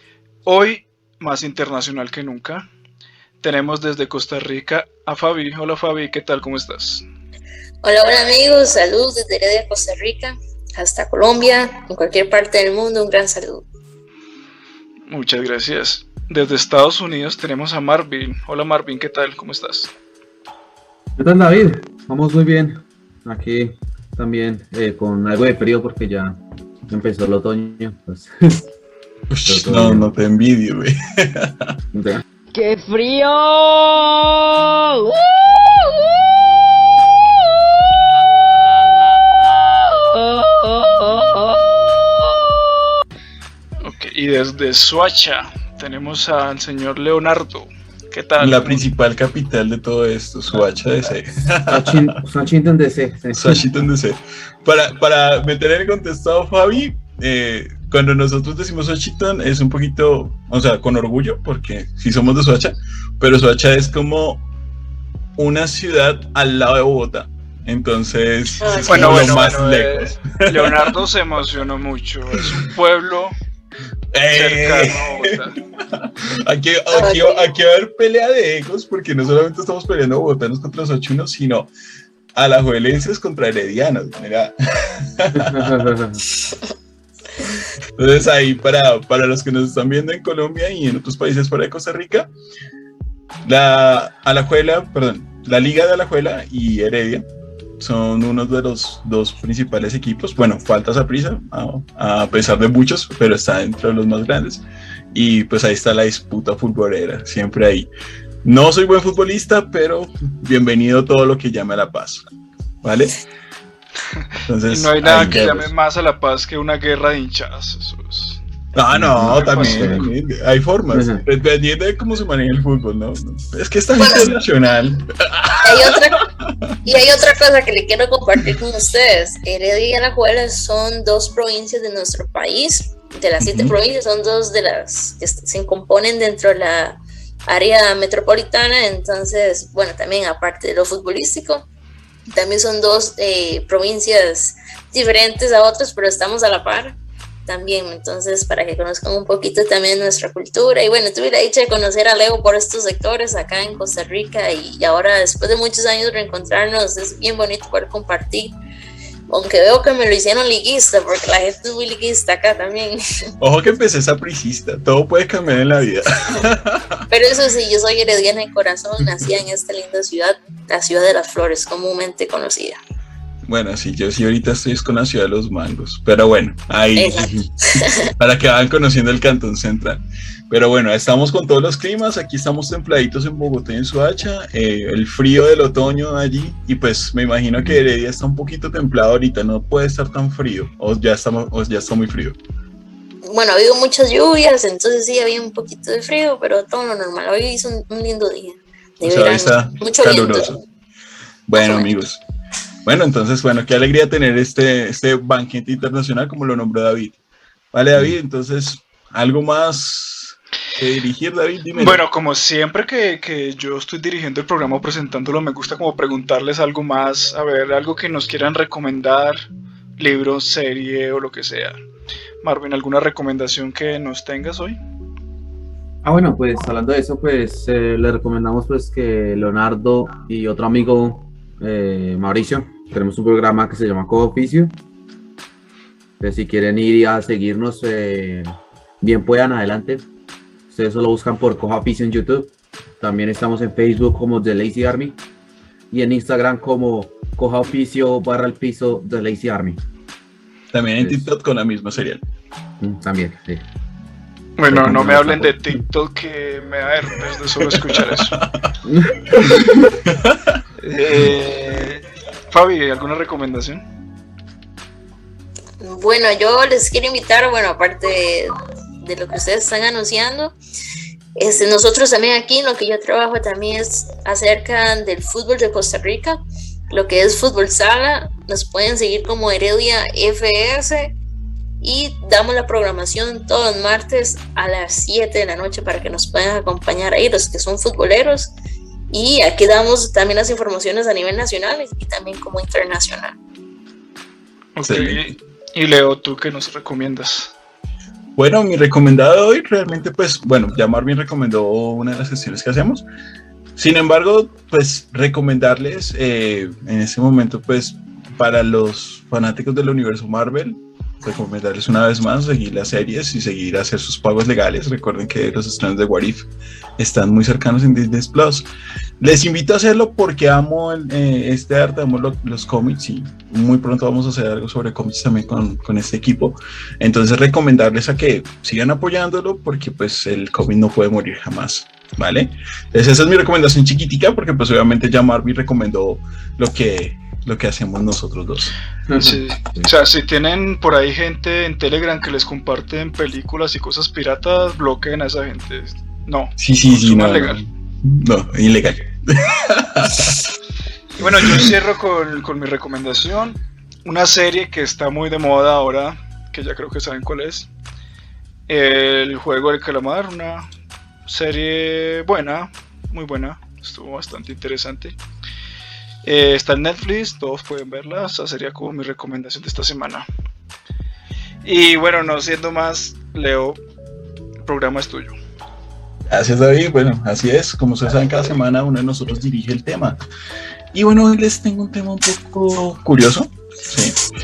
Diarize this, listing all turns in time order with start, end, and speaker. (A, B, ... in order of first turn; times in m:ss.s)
0:00.4-0:02.6 A
0:03.4-0:07.0 A
0:07.8-0:13.6 B
0:15.1-0:19.9 A
0:21.2-0:28.6 C
0:29.3-0:31.8 D
0:29.5-0:30.1 C
0:31.9-0:32.2 C
0:32.5-0:36.3 E
0:40.0-0:43.0 E
0:43.8-0:48.8 A
0:48.4-0:52.1 D
0:51.7-0:53.6 C
0:53.3-1:04.4 D
1:05.4-1:10.9 D
1:08.6-1:09.2 B
1:08.9-1:13.4 A
1:14.1-1:21.7 D
1:14.3-1:15.6 A
1:16.9-1:17.4 B
1:22.4-1:26.0 D
1:25.4-1:26.2 C
1:28.0-1:32.3 D
1:33.4-1:37.2 D
1:37.8-1:47.9 D
1:48.4-1:52.3 D
1:52.8-1:53.2 D
1:54.2-1:58.4 A
1:54.5-1:55.7 D
1:55.2-1:55.5 C
1:58.7-2:06.8 D
1:58.9-2:00.1 C
1:59.2-2:00.1 A
2:00.9-2:01.2 C
2:04.0-2:04.3 B
2:05.6-2:06.2 B
2:06.8-2:21.7 B
2:13.4-2:13.8 D
2:22.3-2:27.0 B
2:27.5-2:38.6 B
2:39.3-2:43.0 B
2:43.4-2:47.0 D
2:47.1-2:52.8 B
2:53.5-3:12.4 D
2:57.0-2:58.1 B
3:13.2-3:20.5 B
3:19.0-3:20.6 D
3:21.5-3:22.2 D
3:21.6-3:21.9 B
3:22.8-3:27.2 D
3:27.7-3:32.0 D
3:31.7-3:39.4 A
3:40.0-3:41.8 A
3:42.4-3:44.8 A
3:46.0-3:54.8 C
3:56.2-4:00.1 C
4:00.7-4:05.2 C
4:05.9-4:09.8 C
4:10.7-4:12.2 D
4:11.0-4:11.3 C
4:12.8-4:13.6 C
4:14.6-4:18.4 A
4:14.7-4:15.8 C
4:17.6-4:18.7 D
4:18.8-4:19.9 C
4:19.3-4:20.6 D
4:20.8-4:23.8 A
4:25.8-4:30.6 B
4:31.4-4:36.4 B
4:36.9-4:41.2 B
4:41.8-4:48.5 B
4:49.1-4:53.4 B
4:54.8-4:57.5 A
4:54.8-4:55.4 D
4:58.4-5:03.0 D
5:03.8-5:18.7 D
5:19.2-5:39.3 D
5:39.1-5:39.9 C
5:39.2-5:47.6 A
5:46.6-5:50.5 D
5:51.2-5:57.7 A
5:51.2-5:51.7 D
5:58.7-6:00.7 A
6:01.3-6:05.2 A
6:06.2-6:10.3 A
6:11.6-6:13.8 A
6:14.6-6:15.4 A
6:16.3-6:20.2 D
6:20.9-6:24.2 D